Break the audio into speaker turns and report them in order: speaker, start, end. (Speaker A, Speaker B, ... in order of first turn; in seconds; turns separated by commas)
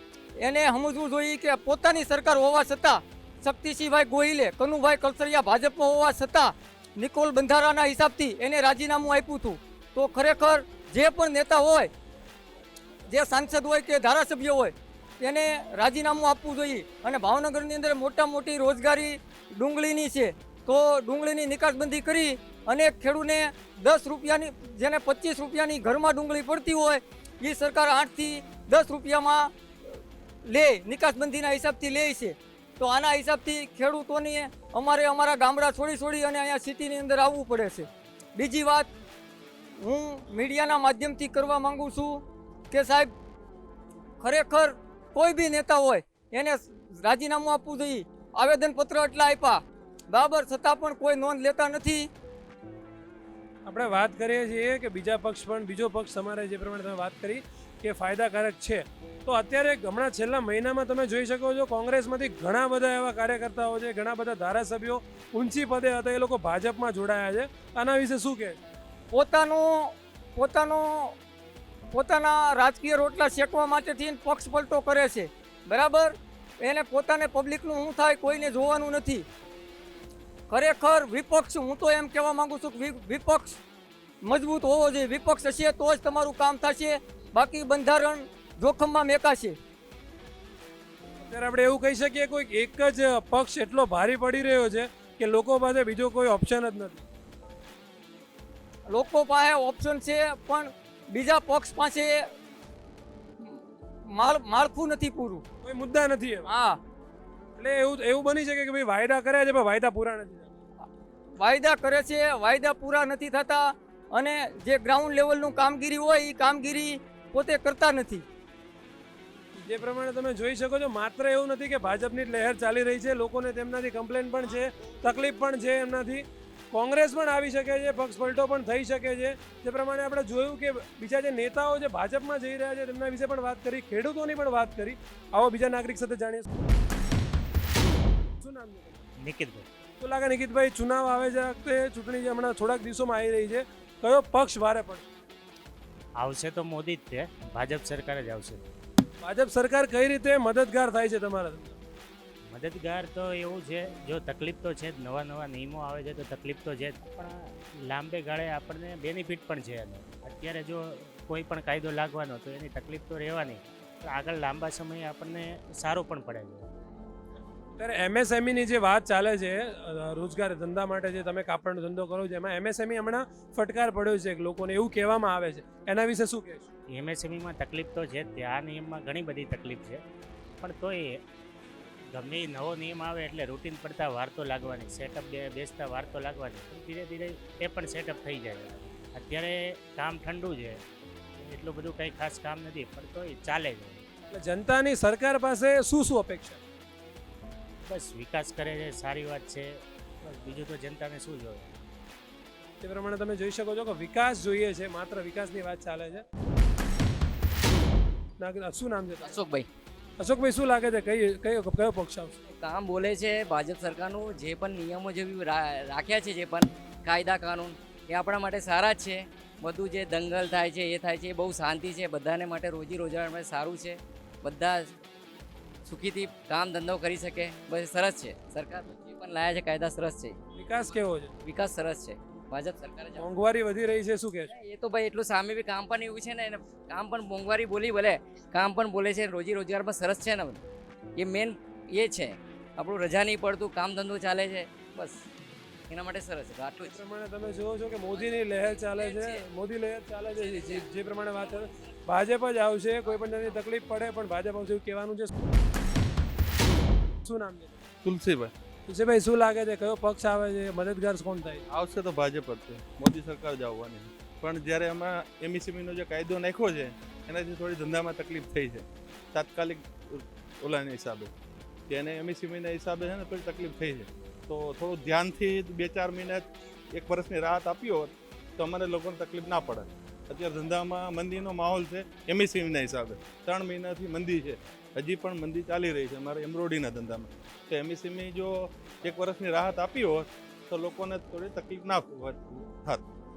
Speaker A: 0.4-11.9, Speaker A: 13.1-38.9, Speaker A: 39.8-43.1, Speaker A: 44.2-52.1, Speaker B: 53.6-68.6, Speaker A: 69.1-71.2, Speaker A: 71.9-79.2, Speaker A: 80.5-83.6, Speaker A: 84.2-89.6, Speaker B: 91.2-97.0, Speaker A: 98.9-102.3, Speaker A: 103.4-105.4, Speaker B: 105.6-106.5, Speaker A: 106.5-106.8, Speaker B: 107.6-110.5, Speaker A: 111.4-118.2, Speaker B: 119.6-136.5, Speaker B: 138.4-139.1, Speaker C: 139.2-139.7, Speaker B: 140.0-145.1, Speaker C: 146.2-148.7, Speaker B: 149.2-151.8, Speaker C: 152.5-166.7, Speaker B: 167.8-176.7, Speaker C: 176.9-180.0, Speaker C: 180.6-181.2, Speaker C: 182.1-190.8, Speaker C: 191.4-194.0, Speaker B: 194.3-196.6, Speaker C: 197.8-201.7, Speaker B: 202.8-206.2, Speaker B: 208.4-209.4, Speaker D: 209.2-209.7, Speaker B: 210.2-212.4, Speaker D: 212.5-224.9, Speaker D: 225.8-230.3, Speaker B: 230.5-231.3, Speaker D: 231.4-233.3, Speaker B: 233.1-234.5, Speaker D: 234.5-240.6, Speaker D: 241.2-245.2, Speaker D: 245.9-247.0, Speaker B: 246.8-255.3, Speaker D: 248.7-249.4, Speaker B: 257.2-257.8, Speaker E: 258.0-258.5, Speaker B: 258.9-261.6, Speaker E: 261.7-271.3, Speaker E: 271.9-293.0